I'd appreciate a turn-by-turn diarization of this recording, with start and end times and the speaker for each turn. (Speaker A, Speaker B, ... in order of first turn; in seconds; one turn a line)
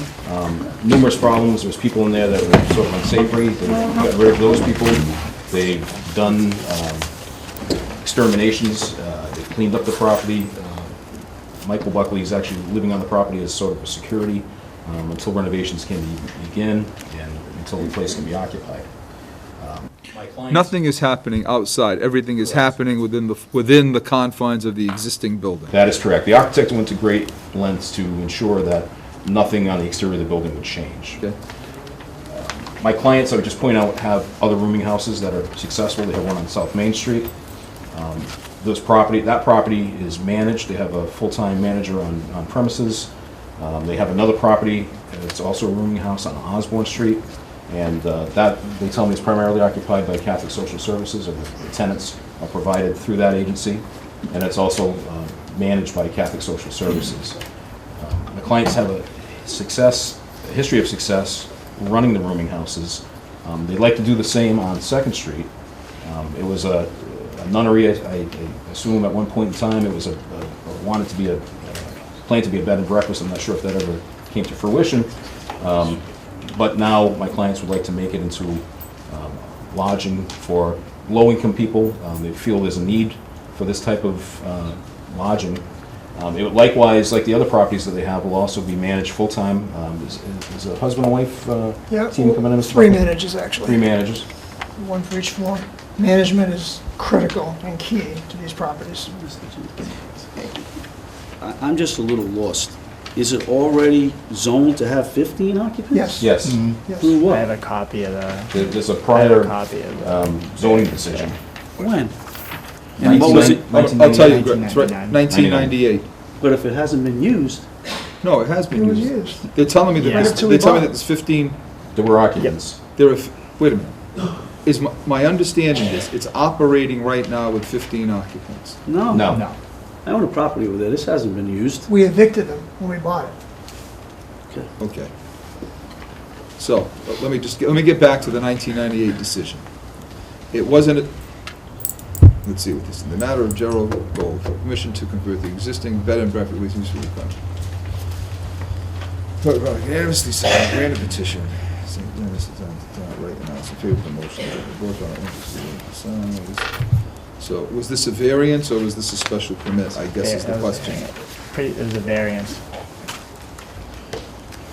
Speaker A: 0.2-7.1
Speaker A: 8.0-11.0
Speaker A: 11.6-18.9
Speaker A: 19.6-20.7
Speaker B: 20.5-25.8
Speaker A: 22.4-22.7
Speaker A: 25.7-31.2
Speaker A: 32.3-37.3
Speaker A: 37.9-57.4
Speaker A: 58.0-65.5
Speaker A: 66.0-85.6
Speaker A: 86.2-94.2
Speaker C: 91.9-93.9
Speaker C: 94.8-99.1
Speaker D: 99.1-100.2
Speaker D: 101.4-106.4
Speaker C: 105.9-107.2
Speaker A: 106.2-106.7
Speaker E: 106.3-111.3
Speaker D: 107.0-107.4
Speaker A: 108.5-111.4
Speaker D: 111.8-112.1
Speaker D: 113.0-113.7
Speaker A: 113.0-114.5
Speaker E: 113.0-115.2
Speaker B: 113.3-116.0
Speaker A: 115.3-115.7
Speaker D: 116.4-117.6
Speaker B: 118.2-121.6
Speaker C: 118.7-119.4
Speaker E: 119.8-120.3
Speaker C: 120.0-120.9
Speaker A: 121.9-122.8
Speaker B: 123.0-128.8
Speaker D: 128.9-129.3
Speaker A: 129.1-129.5
Speaker E: 129.2-129.5
Speaker D: 130.0-131.8
Speaker C: 131.9-133.3
Speaker B: 134.8-135.1
Speaker B: 136.6-139.6
Speaker B: 140.5-141.1
Speaker B: 142.4-147.3
Speaker B: 149.4-161.0
Speaker E: 159.9-162.6